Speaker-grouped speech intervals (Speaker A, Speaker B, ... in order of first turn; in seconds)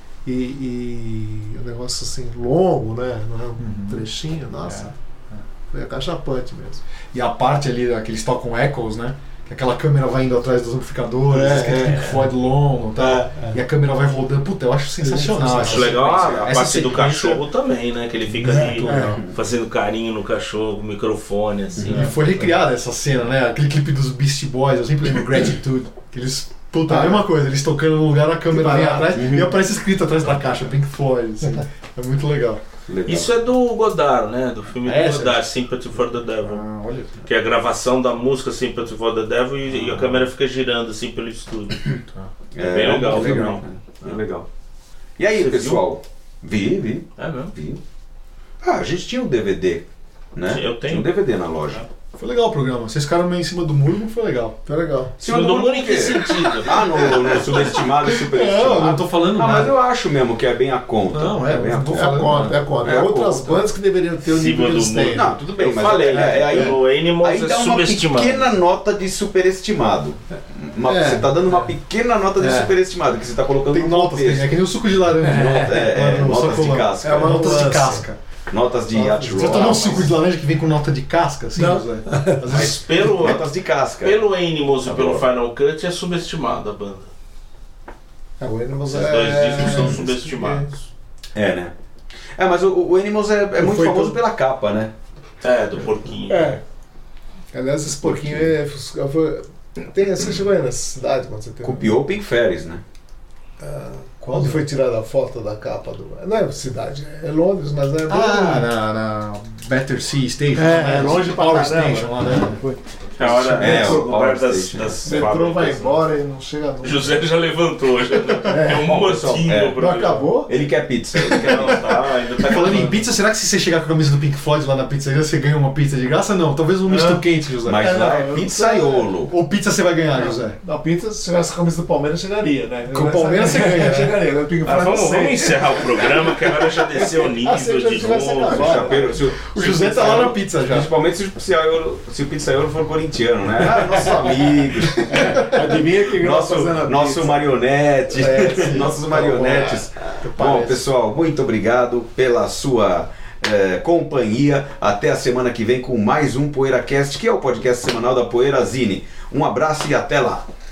Speaker A: 0.2-5.0, 5.7-6.8, 11.3-12.1, 15.0-16.0, 18.5-19.2, 26.9-27.2, 28.5-29.2, 54.6-55.1, 61.9-65.4, 66.1-66.7, 70.9-71.3, 77.0-78.1, 78.9-80.0, 81.5-82.4, 88.4-90.7, 93.6-94.2, 96.3-96.6, 97.5-102.0, 103.6-108.7, 110.5-112.8, 115.0-117.2, 118.4-119.0, 119.8-120.6, 126.9-129.1, 130.2-139.2, 145.0-147.4, 148.2-149.5
Speaker B: 3.6-4.0, 4.7-5.4, 7.1-17.4, 18.4-19.2, 21.9-32.6, 34.8-35.4, 36.4-37.2, 39.7-40.2, 52.2-54.6, 57.5-59.7, 61.1-62.6, 73.7-78.2, 79.3-83.0, 104.2-104.6, 108.1-112.6, 113.2-114.0, 122.4-128.2, 129.3-130.6, 132.9-134.2, 139.3-140.9, 145.1-145.9, 148.2-150.8
Speaker C: 11.4-12.2, 13.0-13.3, 15.6-22.1, 33.1-36.6, 37.2-41.9, 42.6-44.2, 45.3-45.8, 47.2-47.5, 50.4-51.1, 55.2-57.7, 64.2-68.5, 79.7-80.1, 82.5-87.1, 88.9-90.9, 95.4-96.6, 113.2-116.0, 116.8-120.4, 121.2-123.0, 134.7-139.1
Speaker D: 19.1-19.3, 21.8-22.0, 29.1-29.5, 32.9-33.3, 42.5-44.5, 45.2-47.8, 48.6-51.9, 55.2-62.2, 62.8-63.6, 65.0-74.6, 75.2-77.6, 78.5-80.1, 83.0-84.2, 84.8-85.3, 91.3-91.7, 92.4-94.9, 98.0-98.5, 101.6-102.8, 113.2-115.2, 118.6-119.9, 120.5-122.0, 127.7-129.3, 138.4-160.5